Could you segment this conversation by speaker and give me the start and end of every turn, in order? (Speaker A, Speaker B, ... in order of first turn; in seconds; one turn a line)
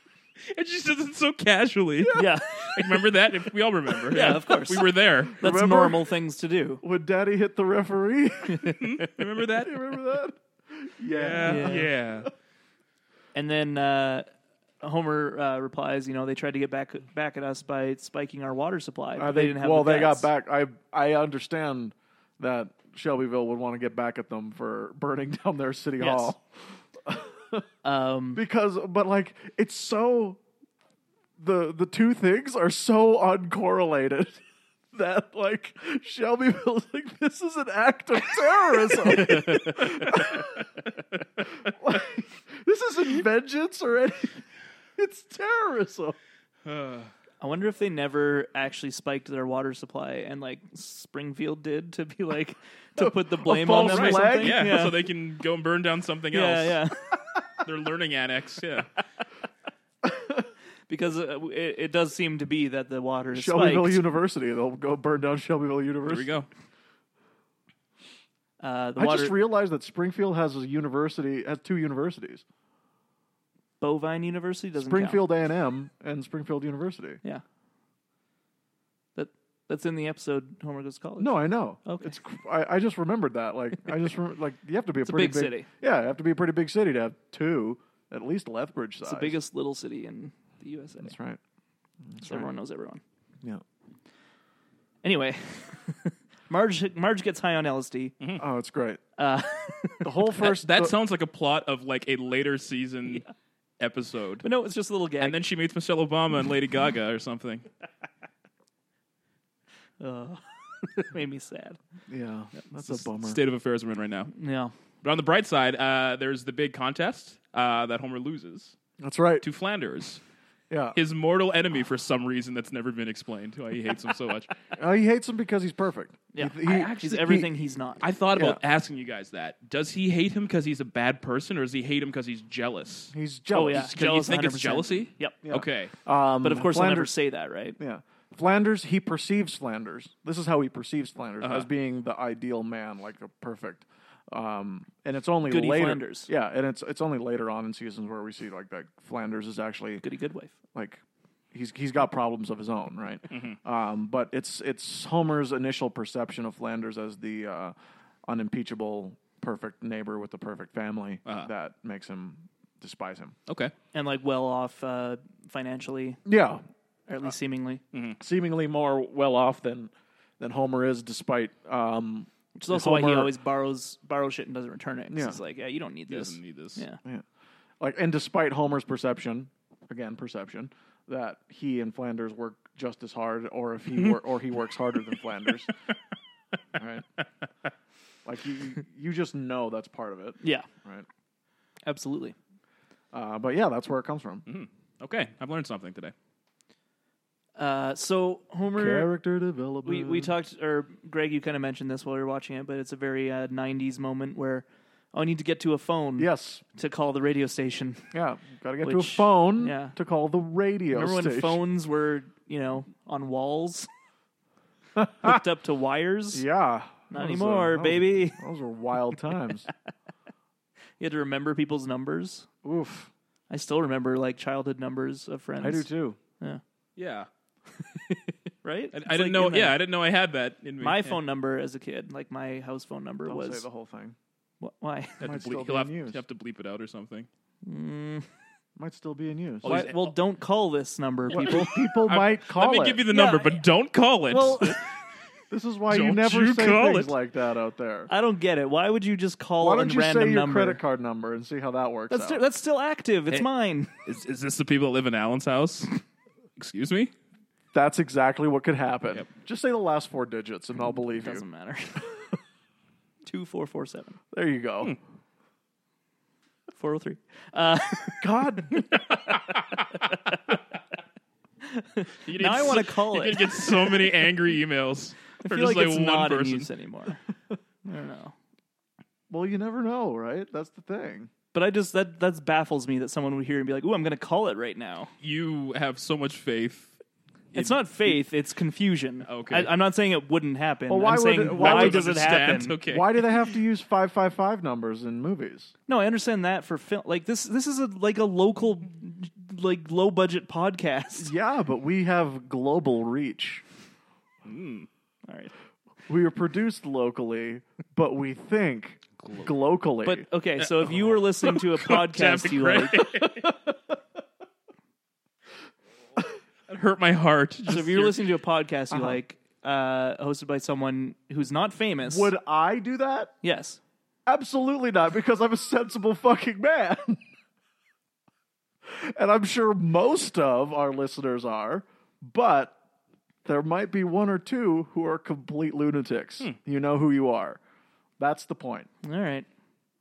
Speaker A: 0.4-5.4
Speaker B: 2.0-2.3
Speaker C: 2.1-2.7
Speaker C: 4.1-6.8
Speaker B: 5.3-6.1
Speaker B: 6.8-12.2
Speaker A: 8.7-9.9
Speaker A: 11.1-12.3
Speaker C: 11.4-11.8
Speaker C: 13.3-14.2
Speaker C: 14.8-20.3
Speaker B: 19.2-26.4
Speaker C: 26.0-26.3
Speaker B: 26.9-27.6
Speaker C: 27.8-28.4
Speaker B: 28.3-30.4
Speaker B: 31.4-34.4
Speaker B: 34.9-40.7
Speaker B: 41.4-44.4
Speaker B: 45.0-46.1
Speaker A: 46.6-47.1
Speaker C: 47.4-55.0
Speaker B: 53.0-54.9
Speaker A: 53.8-56.8
Speaker C: 56.3-57.2
Speaker A: 57.6-58.9
Speaker B: 60.0-60.5
Speaker C: 60.9-64.0
Speaker B: 63.3-66.3
Speaker A: 66.0-66.5
Speaker C: 68.6-69.3
Speaker B: 69.0-72.4
Speaker C: 73.8-75.3
Speaker B: 74.8-77.2
Speaker C: 79.2-82.2
Speaker B: 81.2-89.4
Speaker C: 85.0-85.7
Speaker C: 89.0-91.1
Speaker B: 91.0-91.4
Speaker B: 92.1-92.5
Speaker C: 92.2-93.0
Speaker C: 95.0-98.1
Speaker B: 98.4-99.0
Speaker C: 99.2-100.3
Speaker B: 100.0-100.9
Speaker A: 100.4-103.2
Speaker C: 103.1-103.3
Speaker A: 103.8-104.5
Speaker C: 104.4-105.4
Speaker A: 105.2-107.7
Speaker C: 110.0-111.8
Speaker B: 112.1-113.4
Speaker A: 112.8-114.3
Speaker C: 114.3-114.7
Speaker A: 115.0-118.7
Speaker B: 119.0-119.4
Speaker A: 119.4-120.2
Speaker B: 120.7-121.0
Speaker A: 120.9-124.5
Speaker B: 124.8-127.5
Speaker C: 126.3-128.0
Speaker A: 128.0-135.9
Speaker B: 128.3-128.6
Speaker B: 133.1-133.9
Speaker C: 133.5-135.4
Speaker B: 135.4-137.1
Speaker C: 136.4-137.8
Speaker B: 137.8-150.0
Speaker A: 141.4-141.7
Speaker C: 145.5-146.3
Speaker C: 150.0-150.6
Speaker B: 150.7-151.0
Speaker B: 151.5-157.7
Speaker A: 153.3-153.6
Speaker B: 158.2-163.3
Speaker A: 161.2-161.5
Speaker A: 163.5-163.7
Speaker C: 163.9-166.2
Speaker B: 166.2-166.6
Speaker C: 167.1-167.8
Speaker A: 167.9-168.2
Speaker B: 168.2-173.3
Speaker C: 172.6-177.0
Speaker B: 175.1-175.4
Speaker A: 176.1-176.8
Speaker B: 177.8-185.7
Speaker B: 186.8-187.1
Speaker B: 188.2-191.1
Speaker C: 190.4-190.7
Speaker C: 191.8-192.3
Speaker B: 193.1-194.4
Speaker A: 194.5-196.1
Speaker C: 197.6-199.1
Speaker B: 198.8-200.3
Speaker C: 199.8-208.1
Speaker B: 206.2-206.6
Speaker B: 208.1-211.6
Speaker C: 208.8-209.9
Speaker C: 210.9-213.9
Speaker B: 215.0-215.4
Speaker C: 215.2-216.4
Speaker B: 216.3-219.7
Speaker C: 217.1-218.4
Speaker C: 221.0-222.5
Speaker B: 222.6-223.1
Speaker C: 223.5-225.9
Speaker B: 225.6-226.2
Speaker A: 227.0-227.3
Speaker C: 228.6-229.8
Speaker A: 228.9-231.2
Speaker C: 230.8-233.6
Speaker B: 233.3-234.2
Speaker C: 234.6-235.2
Speaker A: 235.2-237.3
Speaker B: 235.2-236.2
Speaker C: 237.6-238.3
Speaker B: 238.8-239.8
Speaker A: 239.6-240.2
Speaker C: 239.6-241.7
Speaker B: 241.3-243.0
Speaker A: 241.3-244.8
Speaker C: 243.1-243.6
Speaker C: 244.3-244.8
Speaker B: 245.5-248.1
Speaker A: 245.9-247.1
Speaker C: 248.1-250.8
Speaker B: 249.6-252.4
Speaker C: 252.1-254.0
Speaker A: 254.0-255.9
Speaker A: 256.6-257.1
Speaker B: 257.7-261.4
Speaker C: 261.2-262.1
Speaker C: 263.2-264.2
Speaker B: 264.3-264.9
Speaker C: 266.7-269.0
Speaker B: 268.2-268.9
Speaker A: 269.4-269.9
Speaker C: 269.5-270.6
Speaker C: 271.6-274.1
Speaker A: 272.2-276.7
Speaker C: 275.4-277.2
Speaker C: 277.8-278.3
Speaker B: 279.3-281.3
Speaker C: 281.5-285.1
Speaker A: 285.2-287.0
Speaker C: 287.5-292.8
Speaker A: 289.3-289.7
Speaker B: 290.9-295.7
Speaker A: 291.4-293.2
Speaker C: 295.9-301.3
Speaker B: 301.1-303.6
Speaker A: 304.4-304.9
Speaker C: 305.3-305.5
Speaker B: 306.1-310.2
Speaker C: 310.0-313.1
Speaker A: 310.8-313.6
Speaker B: 313.3-313.5
Speaker A: 316.7-318.2
Speaker C: 317.6-322.3
Speaker B: 318.9-319.2
Speaker B: 322.0-323.3
Speaker C: 323.4-323.8
Speaker B: 324.2-327.2
Speaker B: 328.9-332.8
Speaker B: 333.4-337.6
Speaker B: 338.2-338.9
Speaker C: 339.0-339.5